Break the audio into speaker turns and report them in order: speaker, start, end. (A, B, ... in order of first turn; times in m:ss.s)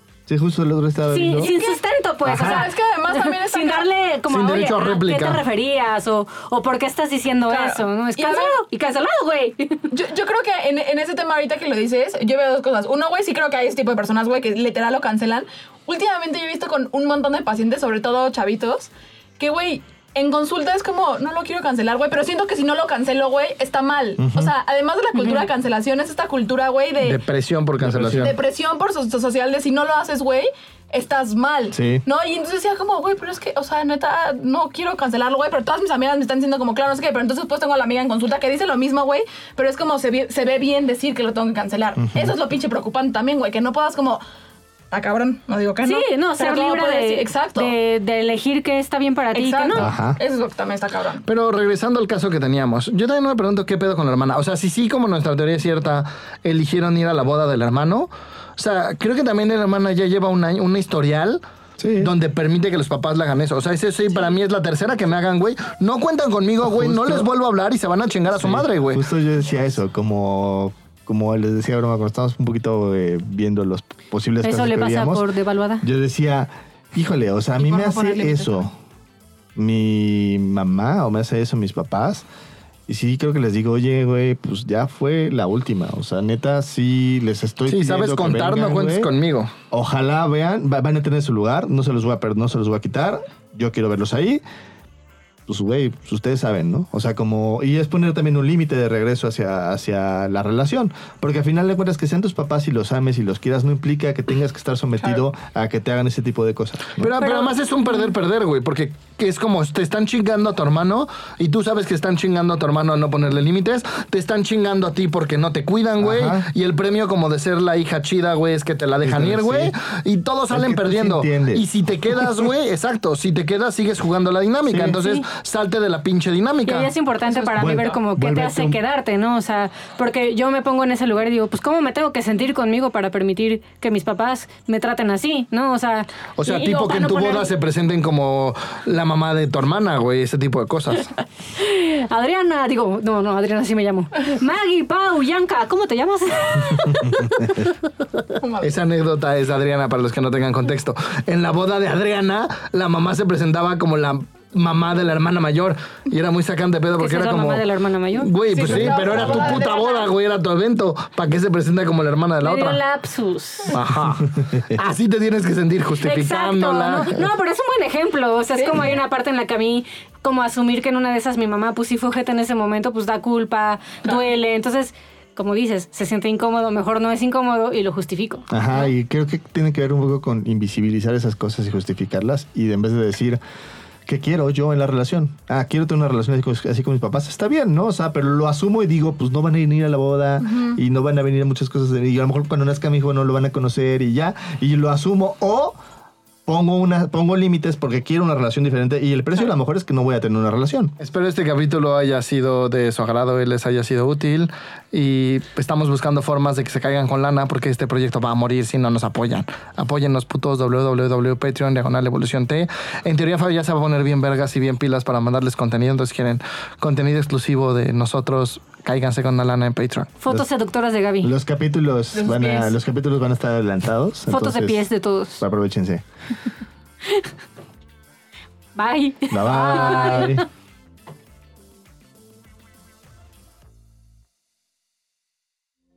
0:00.3-0:01.5 A
0:01.1-0:09.9 B
0:01.4-0:01.8 C
0:02.3-0:02.6 D
0:02.3-0:03.9 C
0:04.3-0:05.4 D
0:07.5-0:08.6 C
0:09.9-0:27.2 C
0:24.2-0:24.5 A
0:25.1-0:25.5 B
0:27.0-0:28.4 D
0:27.8-0:28.3 A
0:28.2-0:44.2 C
0:31.7-0:32.0 A
0:42.0-0:42.3 A
0:44.9-0:47.7 C
0:45.8-0:49.9 B
0:49.3-0:51.2 C
0:49.8-0:50.2 A
0:51.2-1:01.4 D
1:01.8-1:02.1 A
1:02.0-1:09.0 D
1:06.6-1:07.3 A
1:08.4-1:15.2 A
1:14.4-1:15.8 B
1:15.8-1:18.7 A
1:17.6-1:18.6 C
1:19.6-1:22.2 A
1:22.9-1:29.1 A
1:27.7-1:29.5 D
1:29.7-1:34.4 A
1:35.5-1:47.1 A
1:47.0-2:06.9 D
1:47.2-1:48.0 B
1:56.0-1:56.5 A
1:59.0-1:59.7 A
2:00.5-2:02.3 A
2:04.6-2:05.0 A
2:05.0-2:05.2 B
2:06.6-2:17.5 B
2:07.2-2:08.0 C
2:07.6-2:08.8 A
2:16.4-2:21.1 D
2:21.6-2:27.6 B
2:28.4-2:28.8 C
2:28.6-2:42.8 D
2:37.0-2:38.3 B
2:38.4-2:40.2 C
2:42.4-2:43.8 B
2:43.7-2:47.2 D
2:46.0-2:58.4 B
2:48.5-2:48.9 C
2:58.5-3:03.4 A
3:04.0-3:15.8 A
3:10.4-3:10.8 C
3:16.4-3:20.9 A
3:21.0-3:40.1 D
3:40.2-3:41.3 B
3:41.2-3:44.9 A
3:42.1-3:42.7 C
3:44.3-3:45.4 B
3:45.4-3:46.0 A
3:48.7-3:50.4 B
3:49.3-3:50.4 A